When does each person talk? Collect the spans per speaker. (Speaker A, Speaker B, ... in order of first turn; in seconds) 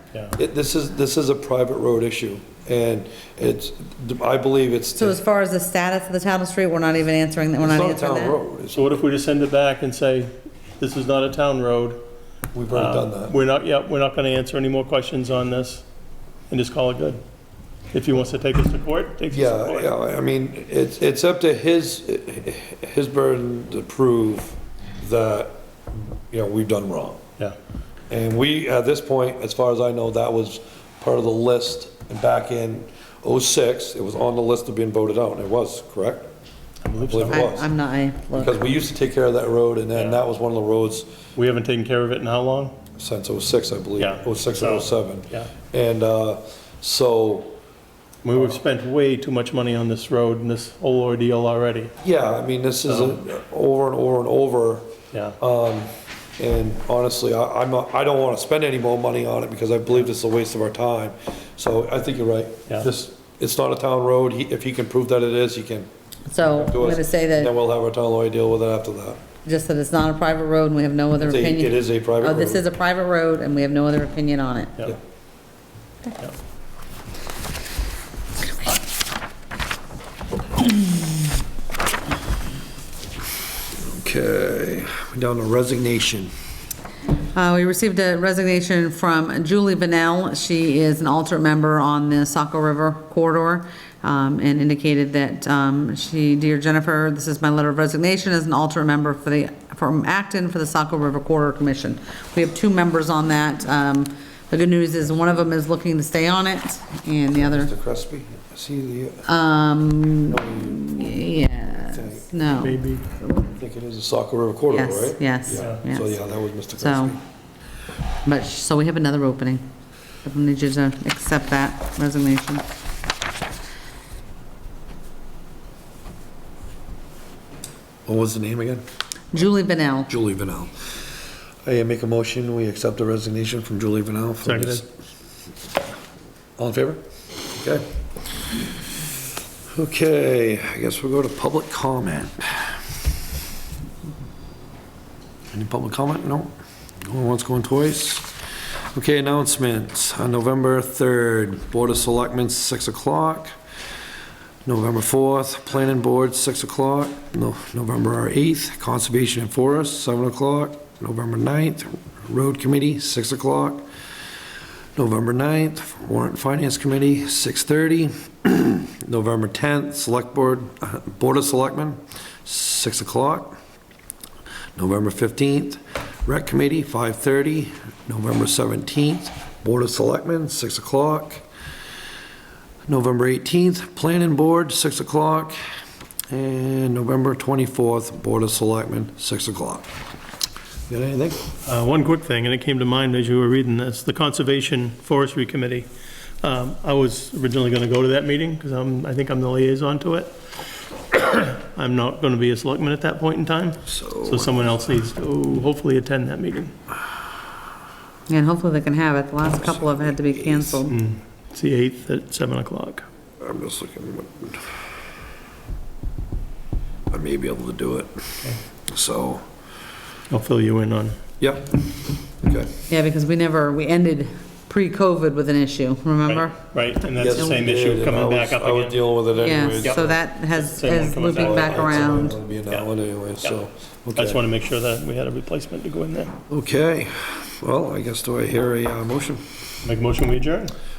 Speaker A: 0.4-5.2, 7.6-8.9, 12.5-13.4, 19.3-27.2, 28.1-36.3, 37.0-37.7, 38.3-41.1, 43.0-47.5, 52.0-54.9, 55.4-65.9, 66.4-69.2, 71.2-72.6, 83.8-86.3, 107.3-109.3, 110.3-110.9, 111.9-112.3, 113.4-117.2, 128.1-128.8, 130.1-130.9, 131.6-134.9, 136.6-137.0, 137.5-138.8, 139.7-142.8, 145.5-146.5, 147.0-148.3, 148.9-153.5, 154.7-163.8, 164.9-173.6, 174.8-181.4, 182.9-185.6, 186.3-189.9, 190.9-191.4, 203.9-204.5, 210.3-210.8, 213.4-214.7, 217.1-219.4, 221.4-221.8, 222.4-222.7, 227.2-230.1, 231.1-234.4, 236.5-239.4
Speaker B: 5.0-8.4, 37.3-38.6, 66.3-67.5, 69.4-74.8, 87.3-107.7, 109.2-112.8, 114.7-116.2, 116.8-117.2, 118.2-119.6, 120.2-122.6, 129.3-130.1, 208.3-210.9, 222.9-226.6, 229.3-232.3
Speaker C: 8.7-12.0, 12.7-15.8, 16.5-17.2, 17.9-19.9, 36.9-37.5, 40.0-40.2, 41.4-42.7, 44.0-45.5, 48.2-51.9, 52.9-53.2, 55.1-55.4, 112.5-113.0, 134.4-134.8, 191.6-195.9, 196.4-200.3, 201.1-206.7, 210.9-213.0, 220.3-221.2, 226.2-229.0, 229.8-232.8, 234.2-236.3, 239.8-240.7